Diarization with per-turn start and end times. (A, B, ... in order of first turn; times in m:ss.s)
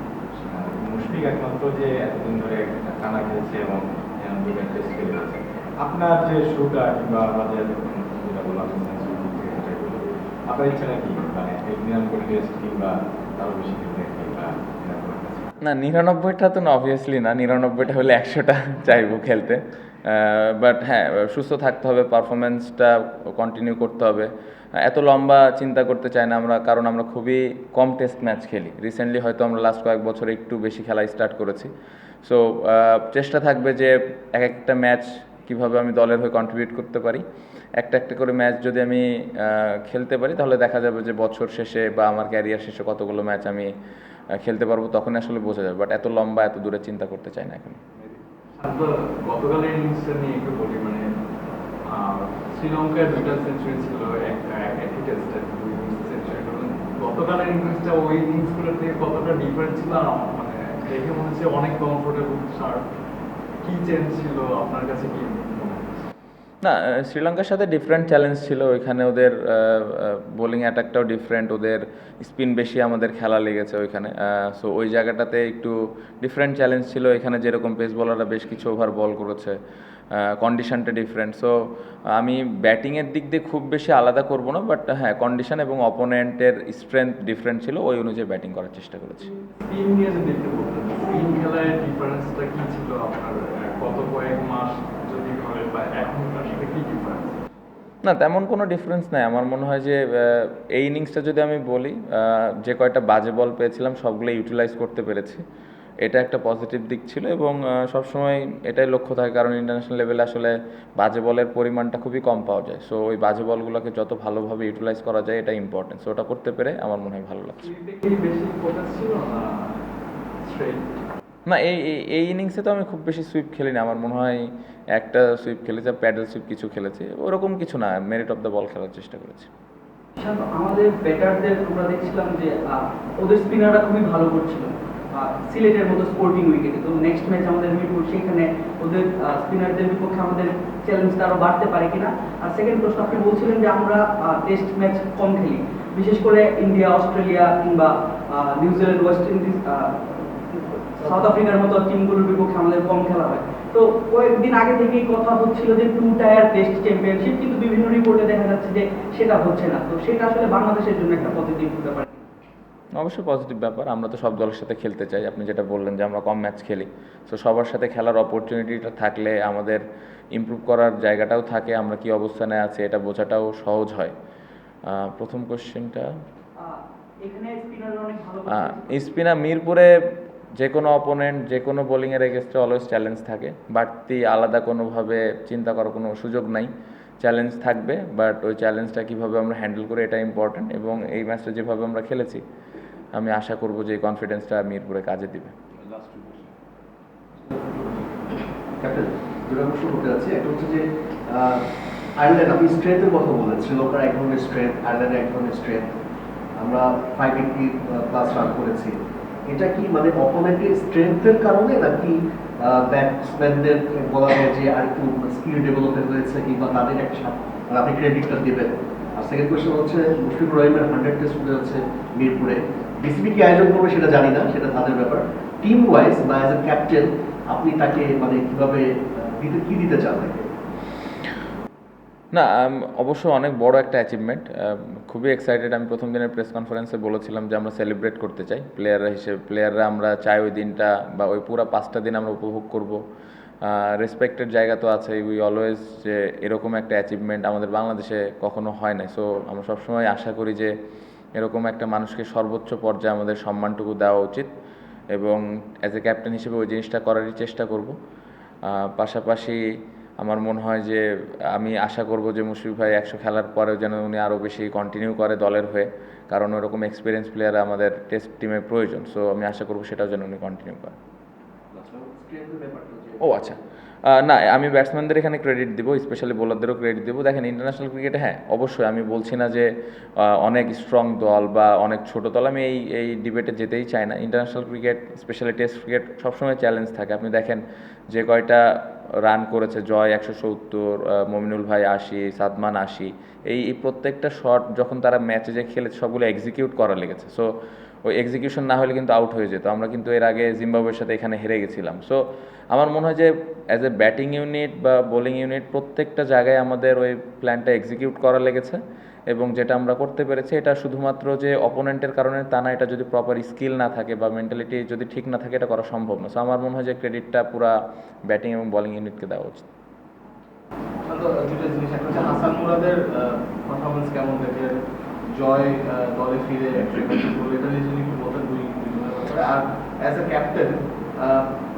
0:00.3-0:15.5 A
0:15.6-0:31.7 B
0:32.2-0:37.2 B
0:37.8-0:43.7 B
0:44.4-0:47.8 B
0:48.0-0:51.1 C
0:51.9-1:02.8 C
1:03.6-1:05.9 C
1:06.6-1:19.6 B
1:20.1-1:21.6 B
1:22.1-1:29.3 B
1:29.6-1:37.4 C
1:38.0-1:45.4 B
1:46.0-1:57.6 B
1:57.6-1:59.8 C
2:00.4-2:01.0 C
2:01.5-2:09.5 B
2:10.2-2:42.3 D
2:43.0-2:49.8 B
2:50.3-2:54.1 B
2:54.9-2:56.1 B
2:56.6-2:59.2 D
2:58.5-2:59.9 B
3:00.6-3:12.4 B
3:13.1-3:15.5 B
3:17.5-3:18.2 E
3:18.8-3:21.6 E
3:22.2-3:25.9 E
3:26.6-3:50.4 E
3:52.3-4:03.0 B
4:03.6-4:10.7 B
4:11.4-4:14.5 B
4:15.1-4:18.0 B
4:18.6-4:19.6 B
4:20.2-4:31.0 B
4:31.7-4:33.6 E
4:33.2-4:57.5 B
4:58.0-5:02.2 B
5:02.7-5:17.8 B
5:18.3-5:19.7 B
5:21.1-5:31.5 F